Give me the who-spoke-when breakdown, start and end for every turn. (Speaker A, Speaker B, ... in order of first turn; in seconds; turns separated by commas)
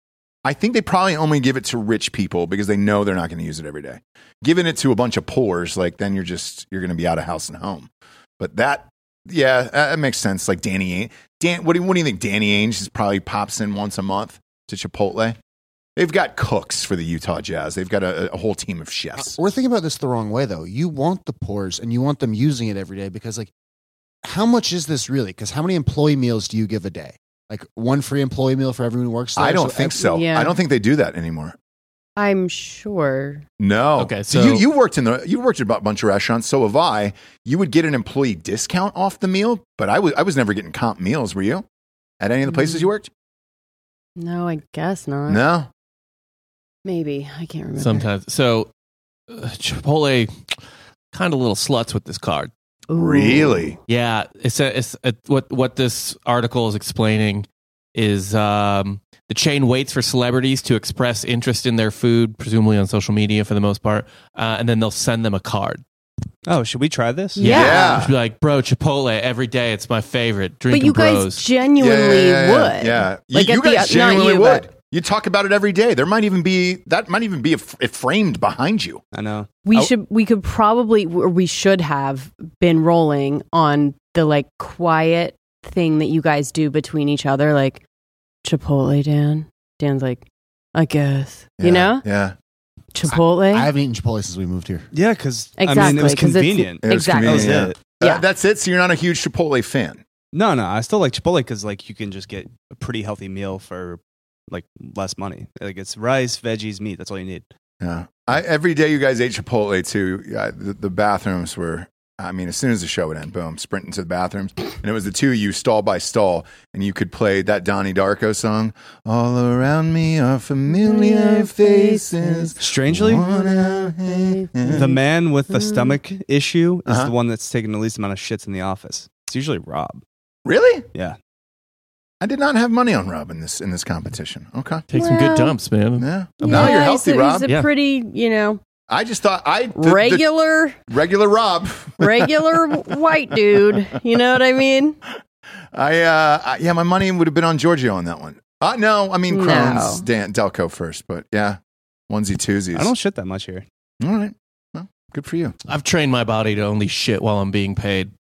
Speaker A: 0.5-15.4, Speaker A: 16.0-19.4, Speaker B: 19.2-23.5, Speaker B: 24.2-30.0, Speaker A: 29.4-31.6, Speaker C: 30.0-30.5, Speaker C: 32.2-33.5, Speaker A: 33.6-41.6, Speaker D: 34.0-34.6, Speaker A: 42.2-43.1, Speaker C: 42.5-42.9, Speaker C: 44.2-45.4, Speaker A: 45.3-45.7, Speaker C: 46.9-48.0, Speaker D: 47.8-48.7, Speaker D: 49.3-50.6, Speaker D: 51.1-52.5, Speaker C: 52.9-53.7, Speaker A: 52.9-53.8, Speaker D: 53.9-65.8, Speaker E: 66.5-67.5, Speaker C: 67.4-68.0, Speaker D: 67.4-71.4, Speaker A: 67.5-68.1, Speaker C: 70.7-74.7, Speaker A: 71.8-79.0, Speaker E: 79.1-79.5, Speaker C: 79.7-87.8, Speaker C: 88.4-90.2, Speaker C: 90.8-92.0, Speaker A: 91.6-92.4, Speaker C: 93.0-93.7, Speaker B: 93.1-94.9, Speaker E: 94.9-97.8, Speaker C: 95.6-98.2, Speaker A: 96.8-100.0, Speaker E: 100.3-107.5, Speaker A: 107.8-124.9, Speaker C: 120.7-122.6, Speaker E: 122.6-123.3, Speaker C: 124.0-126.0, Speaker E: 124.7-130.0, Speaker A: 126.9-127.1, Speaker A: 130.4-130.9, Speaker A: 132.2-134.8, Speaker D: 134.9-136.8, Speaker C: 134.9-135.5, Speaker A: 136.0-137.5, Speaker C: 136.4-138.6, Speaker A: 138.9-140.2, Speaker C: 139.8-140.8, Speaker A: 140.9-142.3, Speaker C: 142.0-145.0, Speaker A: 145.7-152.9, Speaker C: 149.3-150.1, Speaker E: 152.8-153.7, Speaker A: 154.0-155.6, Speaker D: 155.7-158.1